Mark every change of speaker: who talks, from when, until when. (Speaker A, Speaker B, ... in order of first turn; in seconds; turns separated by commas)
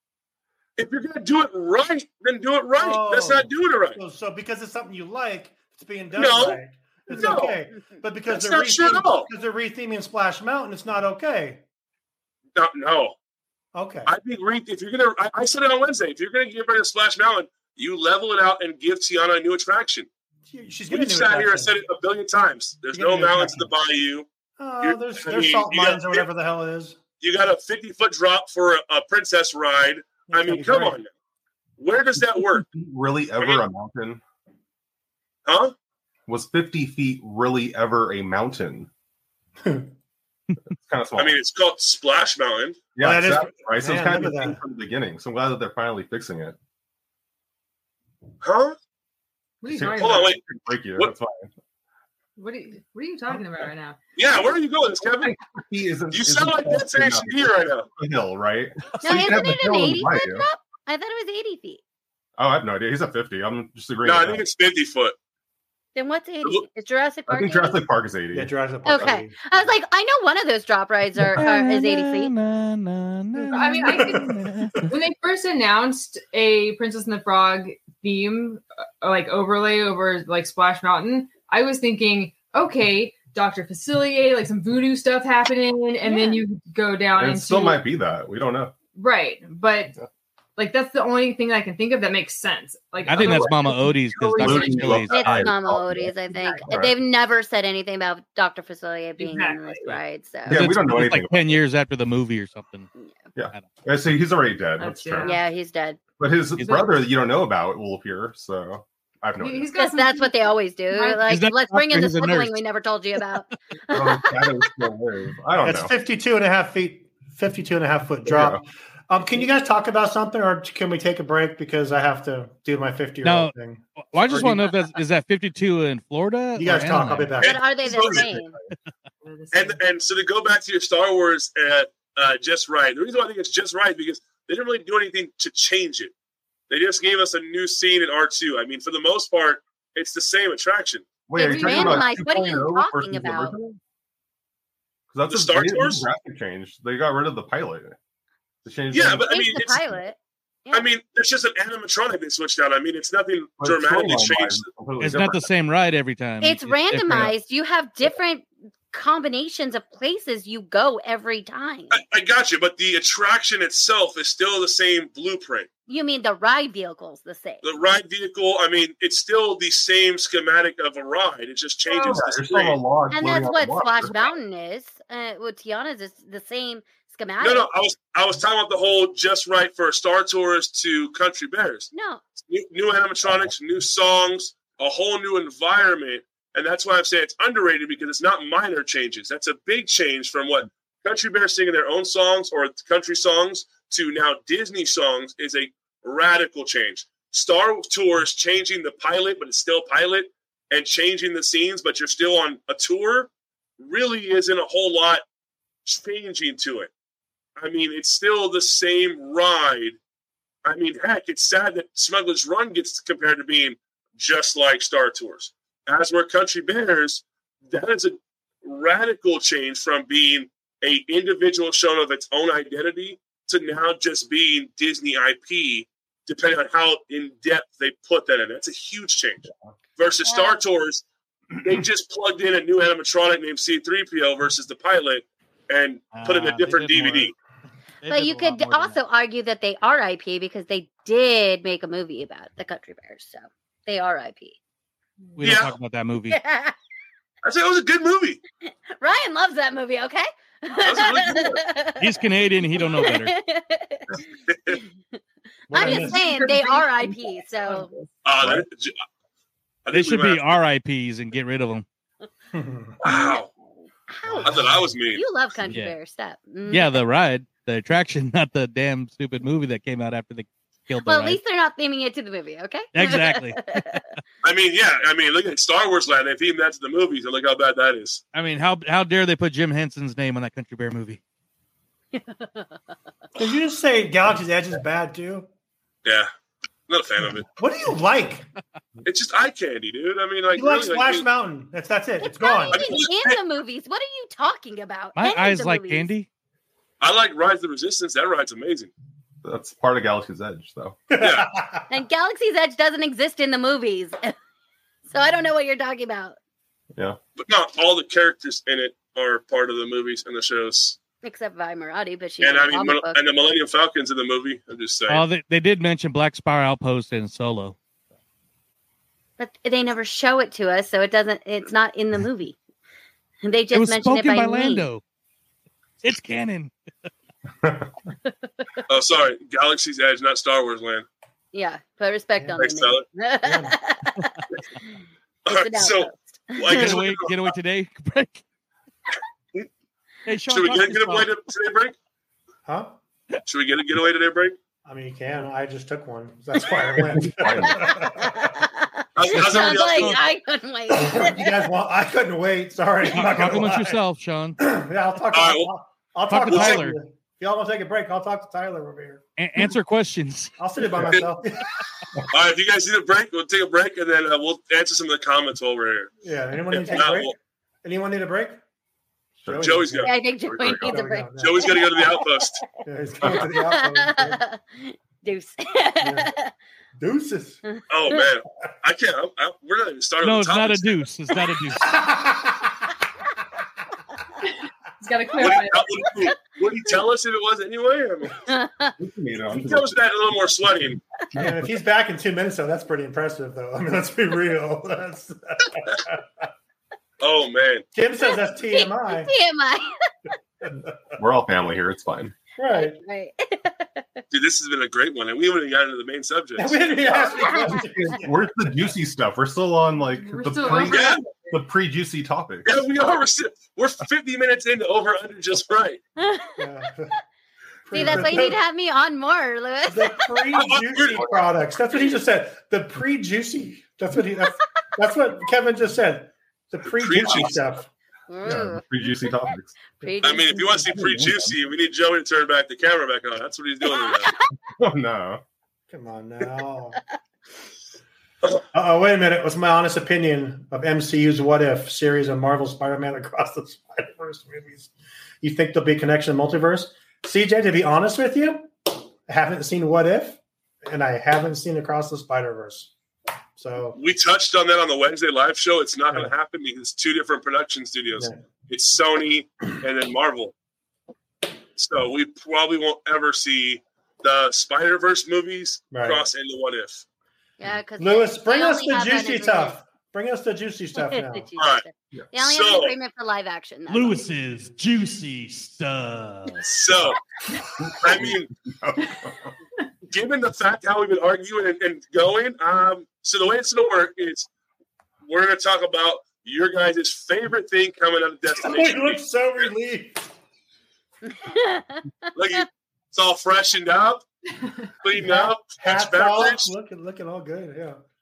Speaker A: 0.8-4.0, Speaker B: 2.8-11.6, Speaker A: 6.2-7.6, Speaker A: 8.3-9.3, Speaker A: 12.6-13.2, Speaker B: 13.7-14.1, Speaker A: 14.1-20.1, Speaker B: 20.5-21.7, Speaker A: 20.9-24.3, Speaker B: 22.9-23.7, Speaker B: 24.6-27.0, Speaker A: 24.8-26.2, Speaker A: 27.2-31.1, Speaker B: 30.3-31.0, Speaker A: 31.8-32.6, Speaker C: 32.6-34.2, Speaker A: 35.5-35.7, Speaker C: 36.3-38.9, Speaker B: 39.6-39.9, Speaker C: 40.7-41.4, Speaker A: 41.2-42.8, Speaker C: 42.9-46.6, Speaker B: 43.0-44.6, Speaker A: 48.4-48.8, Speaker D: 49.6-50.4, Speaker C: 49.7-51.5, Speaker A: 49.9-50.4, Speaker D: 52.4-54.0, Speaker A: 54.1-55.4, Speaker C: 55.2-60.5, Speaker A: 56.1-57.9, Speaker E: 59.0-61.8, Speaker C: 62.4-64.4, Speaker A: 64.0-65.1, Speaker E: 65.9-67.8, Speaker C: 67.3-69.1, Speaker B: 68.3-69.3, Speaker E: 68.8-72.3, Speaker F: 71.2-74.9, Speaker B: 73.3-74.9, Speaker D: 73.5-74.3, Speaker D: 74.8-87.8, Speaker E: 86.0-86.4, Speaker C: 87.1-88.7, Speaker D: 89.0-89.9, Speaker D: 90.6-95.0, Speaker F: 93.1-95.5, Speaker C: 93.1-97.0, Speaker E: 95.1-100.6, Speaker D: 96.4-96.6, Speaker D: 99.2-100.0, Speaker F: 100.5-102.9, Speaker C: 100.5-101.6, Speaker C: 103.3-105.3, Speaker D: 104.8-105.4, Speaker E: 105.2-106.0, Speaker C: 106.2-109.7, Speaker D: 109.4-111.3, Speaker E: 109.8-114.6, Speaker F: 111.3-112.6, Speaker C: 113.9-115.9, Speaker B: 115.6-124.6, Speaker C: 118.2-118.6, Speaker F: 123.2-127.4, Speaker B: 126.5-127.6, Speaker E: 127.4-128.5, Speaker A: 127.4-128.3, Speaker D: 129.2-129.8, Speaker A: 129.5-136.1, Speaker A: 136.7-141.1, Speaker C: 141.3-143.8, Speaker D: 141.4-142.2, Speaker E: 141.4-143.5, Speaker C: 145.1-147.9, Speaker A: 145.3-146.0, Speaker C: 148.6-149.6, Speaker A: 148.9-149.8, Speaker E: 149.3-150.9, Speaker A: 150.7-154.7, Speaker C: 153.6-155.5, Speaker F: 155.0-157.3, Speaker E: 156.4-162.0, Speaker A: 161.9-165.7, Speaker E: 165.9-167.6, Speaker A: 167.6-172.8, Speaker C: 172.0-174.2, Speaker E: 173.1-177.7, Speaker A: 177.4-181.9, Speaker E: 181.9-182.2, Speaker A: 182.5-205.2, Speaker A: 205.8-206.9, Speaker A: 207.6-210.0, Speaker A: 210.6-231.0, Speaker E: 230.2-230.6, Speaker A: 231.6-237.3, Speaker F: 236.1-237.3, Speaker F: 238.0-239.0, Speaker E: 238.1-244.6, Speaker F: 245.4-246.4, Speaker A: 245.4-245.8, Speaker E: 246.3-246.7, Speaker A: 247.4-248.4, Speaker E: 249.0-255.2, Speaker A: 250.8-251.6, Speaker F: 252.0-253.3, Speaker A: 254.5-254.8, Speaker B: 255.7-256.4, Speaker E: 255.7-257.9, Speaker D: 256.5-256.8, Speaker A: 258.2-259.0, Speaker C: 258.4-258.6, Speaker A: 259.9-260.5, Speaker F: 259.9-261.8, Speaker B: 262.5-263.0, Speaker A: 263.0-263.5, Speaker E: 263.0-263.4, Speaker E: 264.1-267.0, Speaker B: 264.3-264.8, Speaker A: 264.4-265.2, Speaker F: 265.7-265.9, Speaker F: 266.7-271.4, Speaker E: 271.0-274.0, Speaker F: 272.9-274.0, Speaker A: 274.4-278.2, Speaker F: 278.3-281.2, Speaker E: 282.1-282.6, Speaker B: 283.4-285.5, Speaker A: 286.9-287.4, Speaker B: 287.6-288.5, Speaker A: 289.0-291.2, Speaker B: 290.5-292.9, Speaker E: 292.2-296.1, Speaker A: 292.7-293.4, Speaker F: 295.1-296.3, Speaker A: 297.0-298.9, Speaker C: 299.4-301.0, Speaker B: 301.1-301.8, Speaker A: 301.2-301.5, Speaker E: 301.9-304.3, Speaker E: 305.1-306.4, Speaker A: 307.4-311.0, Speaker E: 311.2-313.2, Speaker A: 312.4-315.2, Speaker F: 315.1-317.7, Speaker E: 319.4-322.6, Speaker E: 323.4-324.9, Speaker F: 323.7-325.0, Speaker F: 326.0-326.7, Speaker A: 328.9-331.0, Speaker E: 331.5-334.4, Speaker A: 332.6-333.0, Speaker B: 333.4-333.8, Speaker A: 335.4-337.5, Speaker E: 335.5-336.9, Speaker F: 336.7-338.4, Speaker F: 340.2-341.3, Speaker A: 340.5-341.9, Speaker B: 342.6-342.9, Speaker A: 343.4-344.6, Speaker B: 344.8-348.6, Speaker C: 347.0-348.1, Speaker E: 347.8-351.6, Speaker A: 349.1-350.2, Speaker F: 349.3-350.2, Speaker B: 350.9-354.0, Speaker F: 353.1-354.6, Speaker B: 354.6-359.2, Speaker A: 355.3-355.7, Speaker F: 356.3-357.0, Speaker A: 356.5-356.9, Speaker F: 359.4-360.5, Speaker B: 360.6-361.8, Speaker A: 362.3-366.1, Speaker B: 366.2-368.6, Speaker A: 366.7-367.3, Speaker C: 369.4-371.0, Speaker B: 369.5-370.1, Speaker A: 369.6-370.1, Speaker E: 370.0-372.5, Speaker B: 370.7-371.8, Speaker A: 371.4-372.6, Speaker B: 372.8-374.4, Speaker E: 373.2-376.5, Speaker B: 376.0-376.3, Speaker B: 377.0-377.6, Speaker E: 377.6-378.2, Speaker A: 377.9-381.0, Speaker F: 380.2-382.0, Speaker B: 381.8-382.7, Speaker D: 385.0-386.1, Speaker A: 385.4-388.3, Speaker E: 388.4-388.9, Speaker C: 389.0-390.0, Speaker A: 389.5-391.0, Speaker B: 391.3-396.4, Speaker C: 391.4-391.6, Speaker A: 397.2-397.8, Speaker B: 397.9-399.3, Speaker E: 398.2-400.3, Speaker B: 400.6-400.9, Speaker C: 401.2-402.3, Speaker B: 402.6-403.0, Speaker E: 402.7-404.2, Speaker A: 404.3-406.8, Speaker B: 406.6-408.4, Speaker E: 407.4-407.8, Speaker C: 407.5-412.7, Speaker D: 410.1-411.5, Speaker A: 410.7-411.2, Speaker A: 412.6-416.0, Speaker E: 416.2-416.6, Speaker B: 416.6-417.1, Speaker B: 417.9-418.6, Speaker E: 417.9-420.4, Speaker B: 419.9-427.9, Speaker A: 420.5-421.4, Speaker A: 426.9-427.6, Speaker E: 428.3-429.4, Speaker C: 428.4-429.7, Speaker E: 430.0-430.9, Speaker B: 430.0-430.4, Speaker A: 430.2-434.3, Speaker C: 430.9-431.5, Speaker E: 433.9-434.3, Speaker C: 434.8-435.4, Speaker B: 435.9-437.0, Speaker B: 438.7-444.9, Speaker B: 445.4-452.9, Speaker B: 453.6-454.0, Speaker A: 453.9-460.5, Speaker B: 458.1-458.4, Speaker A: 461.8-467.0, Speaker B: 465.9-466.2, Speaker E: 467.6-469.8, Speaker B: 468.0-471.5, Speaker E: 471.0-474.3, Speaker A: 471.6-472.9, Speaker F: 473.9-476.9, Speaker A: 476.7-477.2, Speaker C: 477.8-479.5, Speaker A: 478.0-478.5, Speaker A: 480.1-484.5, Speaker A: 485.2-489.7, Speaker B: 488.6-490.3, Speaker E: 491.3-492.0, Speaker A: 492.3-494.2, Speaker A: 495.0-496.7, Speaker B: 495.1-498.0